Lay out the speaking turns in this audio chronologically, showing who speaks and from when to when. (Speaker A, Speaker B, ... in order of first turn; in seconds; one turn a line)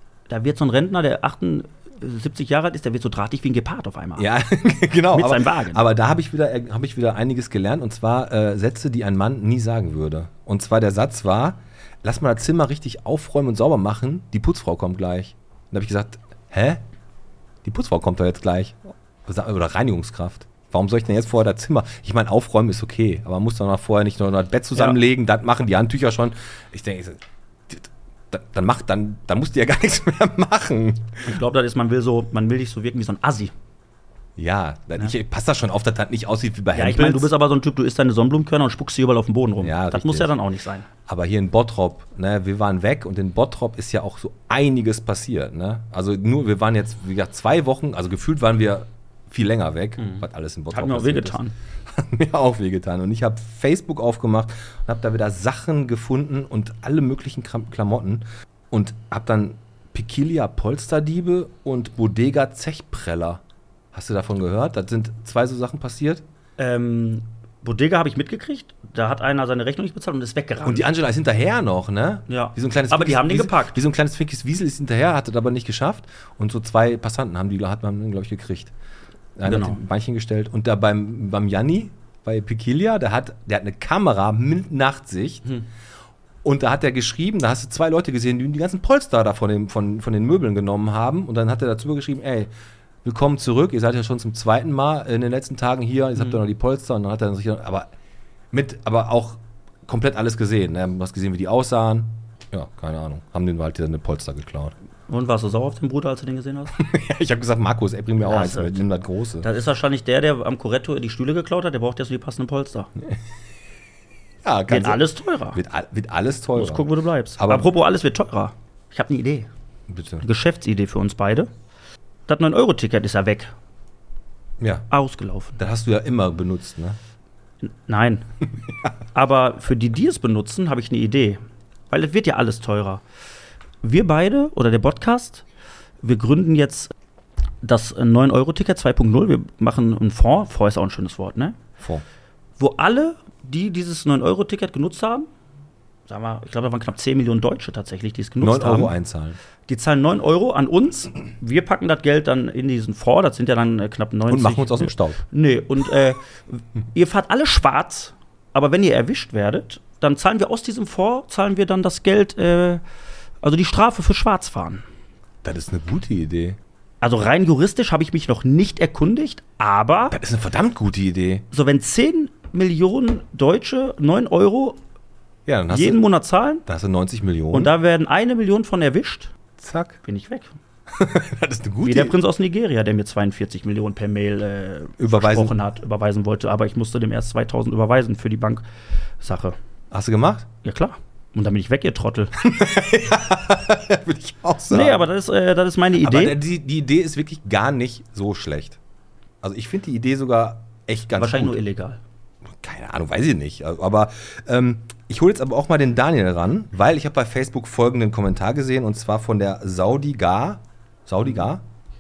Speaker A: 0.3-4.3
Speaker B: 4.2-16.8
Speaker A: 5.1-5.8
Speaker B: 17.6-31.3
Speaker A: 31.3-33.5
Speaker B: 34.4-37.3
Speaker A: 36.7-40.9
Speaker B: 39.6-40.3
Speaker B: 41.1-51.4
Speaker A: 50.0-51.5
Speaker B: 52.0-63.4
Speaker B: 63.9-66.2
Speaker A: 66.6-70.9
Speaker B: 70.6-78.7
Speaker A: 72.3-73.8
Speaker B: 79.4-85.5
Speaker A: 79.5-79.8
Speaker B: 86.4-92.5
Speaker B: 93.0-97.9
Speaker B: 98.5-104.7
Speaker A: 105.1-106.7
Speaker B: 106.8-109.5
Speaker A: 108.2-108.8
Speaker A: 109.4-112.9
Speaker B: 114.4-117.7
Speaker A: 114.7-115.6
Speaker A: 116.5-119.5
Speaker B: 119.9-120.2
Speaker A: 120.2-121.5
Speaker A: 122.3-123.5
Speaker B: 124.6-124.9
Speaker A: 124.9-125.6
Speaker B: 125.6-127.0
Speaker A: 127.6-128.2
Speaker A: 129.2-131.4
Speaker A: 131.9-133.0
Speaker A: 133.8-135.4
Speaker A: 136.0-136.9
Speaker A: 137.6-141.6
Speaker B: 141.8-142.0
Speaker A: 142.6-145.3
Speaker A: 146.1-148.9
Speaker B: 148.4-149.4
Speaker A: 149.7-162.8
Speaker B: 154.3-155.2
Speaker A: 163.4-164.8
Speaker B: 165.4-166.6
Speaker A: 167.0-170.2
Speaker B: 170.1-171.5
Speaker A: 171.5-174.8
Speaker B: 175.5-176.0
Speaker A: 175.7-176.6
Speaker B: 176.7-177.7
Speaker A: 177.5-179.3
Speaker B: 179.6-180.0
Speaker A: 180.1-180.5
Speaker B: 181.0-182.2
Speaker A: 181.8-188.6
Speaker B: 185.0-185.5
Speaker A: 189.2-189.6
Speaker B: 189.9-190.5
Speaker A: 190.6-192.3
Speaker B: 192.4-195.0
Speaker A: 194.7-196.4
Speaker B: 196.0-198.8
Speaker B: 199.4-201.6
Speaker A: 201.2-202.0
Speaker B: 202.6-211.6